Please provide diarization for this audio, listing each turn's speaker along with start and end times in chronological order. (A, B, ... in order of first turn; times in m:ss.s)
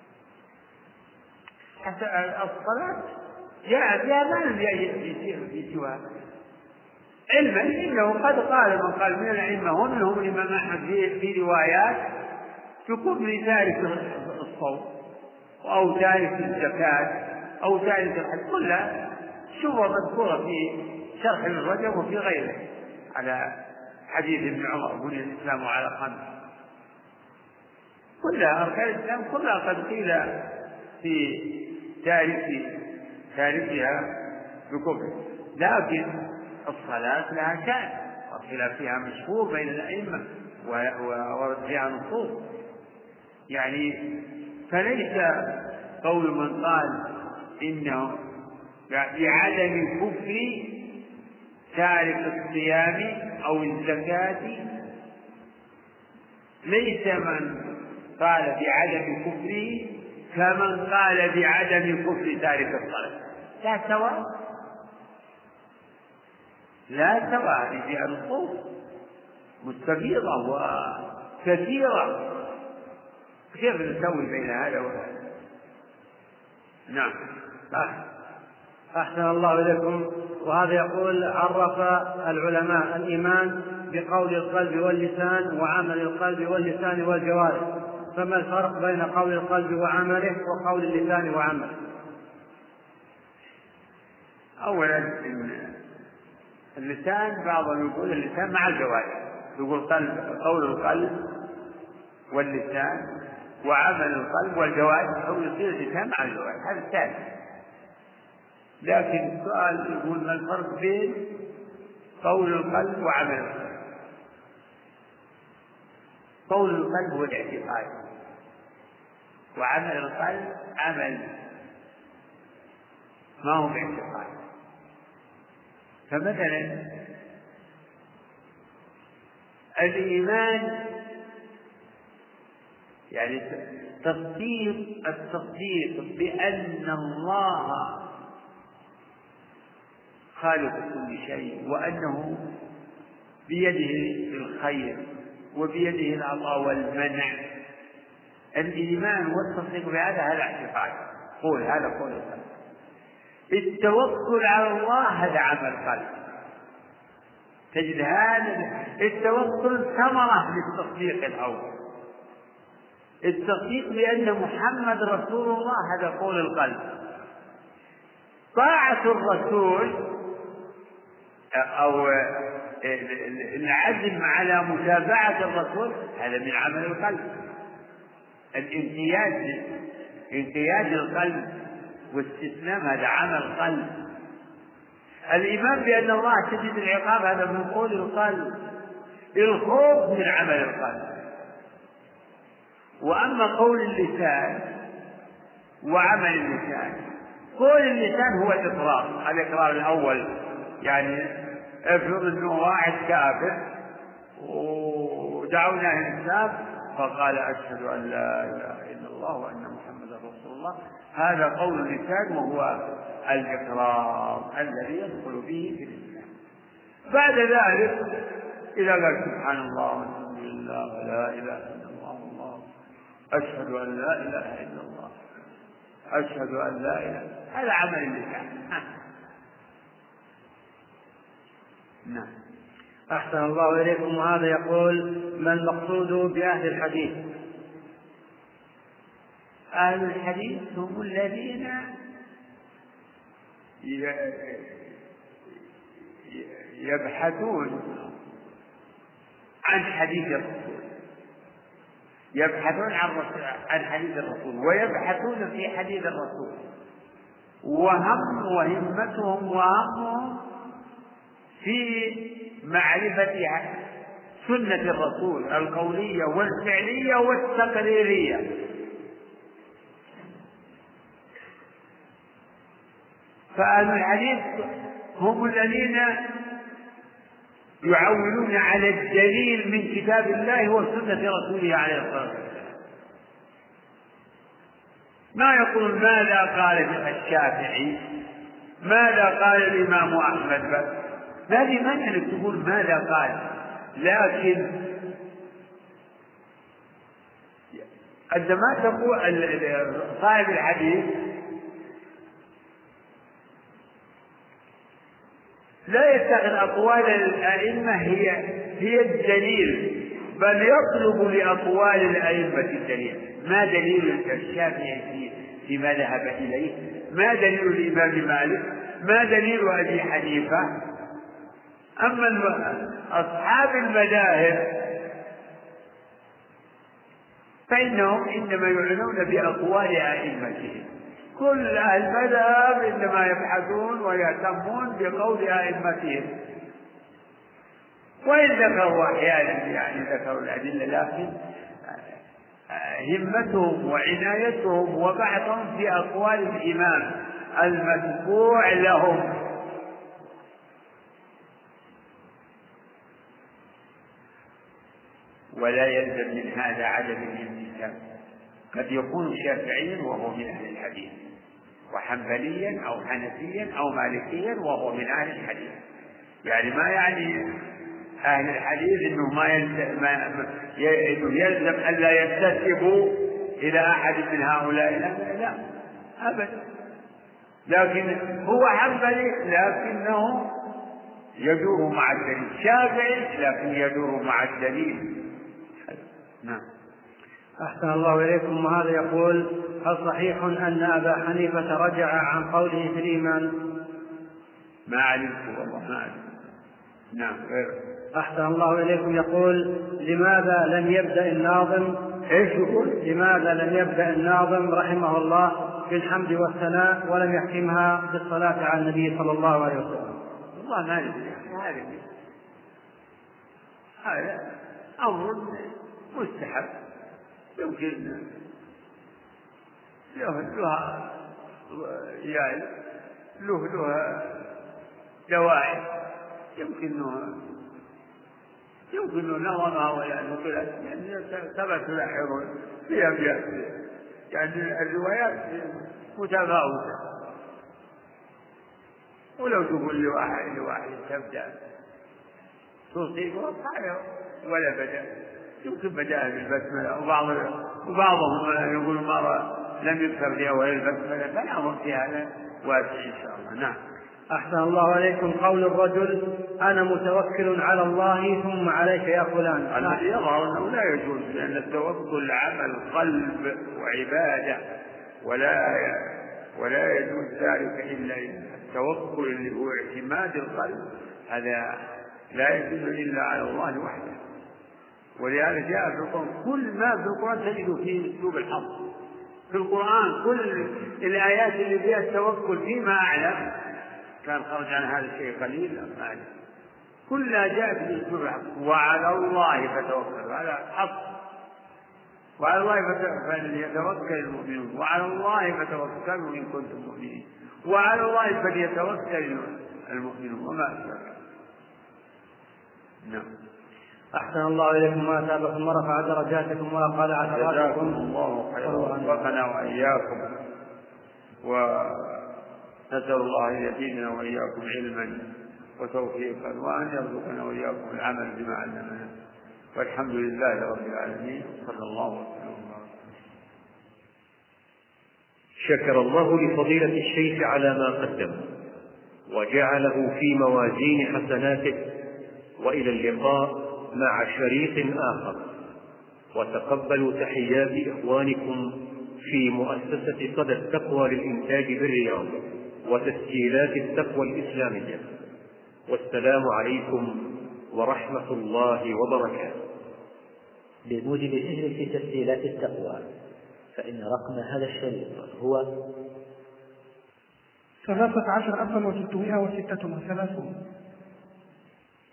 0:01.8-0:03.1 A
0:03.6-0:06.0 A
0:07.3-0:12.1 A
0:12.8-0:14.9 A
0:15.6-0:23.5 A
0:24.1-0:26.2 A
0:28.2-0:30.5 A
0:31.0-0:32.8 A
0:33.3-0:34.1 A
0:34.7-0:42.5 A
0:43.5-0:47.1 A
0:47.6-0:48.2 A
0:48.9-0:50.9 A
0:51.7-0:54.6 A
0:56.6-1:04.3 A
1:06.9-1:08.6 A
1:09.6-1:12.4 A
1:13.5-1:15.2 A
1:16.9-1:17.2 A
1:18.9-1:31.8 B
1:34.6-1:35.7 A
1:36.8-1:41.3 A
1:42.3-1:43.1 A
1:43.6-1:47.2 A
1:48.8-1:51.3 A
1:52.2-1:53.7 A
1:56.5-1:57.9 A
1:59.6-2:01.3 A
2:03.4-2:04.4 A
2:06.1-2:06.9 A
2:09.8-2:10.9 A
2:13.1-2:18.0 A
2:20.4-2:22.4 A
2:23.5-2:25.0 A
2:25.5-2:27.4 A
2:28.6-2:32.4 A
2:33.5-2:36.1 A
2:37.7-2:41.7 A
2:43.2-2:46.9 A
2:48.5-2:50.1 A
2:51.6-2:57.3 A
2:58.5-2:59.7 A
3:00.3-3:01.5 A
3:02.1-3:04.0 A
3:05.3-3:08.6 A
3:09.4-3:11.2 A
3:13.0-3:14.7 A
3:15.8-3:23.6 A
3:24.4-3:36.3 A
3:37.1-3:42.6 A
3:43.3-3:45.1 A
3:46.1-3:48.9 A
3:52.0-3:52.3 A
3:53.1-3:57.2 B
3:59.8-4:01.9 A
4:03.8-4:04.7 A
4:06.3-4:08.0 A
4:09.7-4:10.9 A
4:12.4-4:16.6 A
4:17.6-4:20.4 A
4:21.6-4:23.8 A
4:24.4-4:28.5 A
4:33.5-4:36.3 A
4:37.8-4:42.7 A
4:45.3-4:48.0 A
4:48.8-4:54.9 A
4:57.7-5:01.3 A
5:05.9-5:20.8 A
5:22.0-5:24.9 A
5:27.7-5:36.3 A
5:38.2-5:42.1 A
5:42.7-5:49.5 A
5:55.5-5:58.0 A
5:58.7-6:01.2 A
6:01.9-6:05.8 A
6:06.4-6:07.5 A
6:08.2-6:15.6 A
6:16.2-6:16.6 A
6:17.7-6:20.6 A
6:21.4-6:25.3 A
6:25.9-6:26.6 A
6:27.6-6:33.5 B
6:34.9-6:36.3 A
6:37.1-6:37.8 A
6:38.1-6:42.1 B
6:42.3-6:42.9 A
6:42.8-6:50.2 B
6:50.5-6:52.0 A
6:54.0-6:56.7 A
6:57.6-6:58.2 A
7:00.1-7:02.7 A
7:03.4-7:04.4 A
7:05.3-7:05.9 A
7:06.6-7:07.4 A
7:08.9-7:13.8 A
7:14.3-7:17.0 A
7:19.4-7:21.5 A
7:22.9-7:25.1 A
7:25.6-7:33.8 A
7:34.3-7:40.0 B
7:39.7-7:44.6 A
7:45.2-7:54.2 A
7:55.2-7:58.8 A
7:59.5-8:03.6 A
8:04.2-8:06.3 A
8:07.1-8:11.1 A
8:12.4-8:21.2 A
8:24.1-8:28.0 B
8:27.2-8:30.3 A
8:28.6-8:29.3 B
8:31.4-8:32.3 A
8:32.9-8:35.3 A
8:35.8-8:39.1 A
8:39.7-8:43.0 A
8:45.6-8:48.5 C
8:49.3-8:51.9 C
8:52.6-8:55.5 C
8:56.3-9:05.2 C
9:05.9-9:09.6 C
9:10.8-9:13.0 D
9:13.7-9:15.6 D
9:17.8-9:20.5 E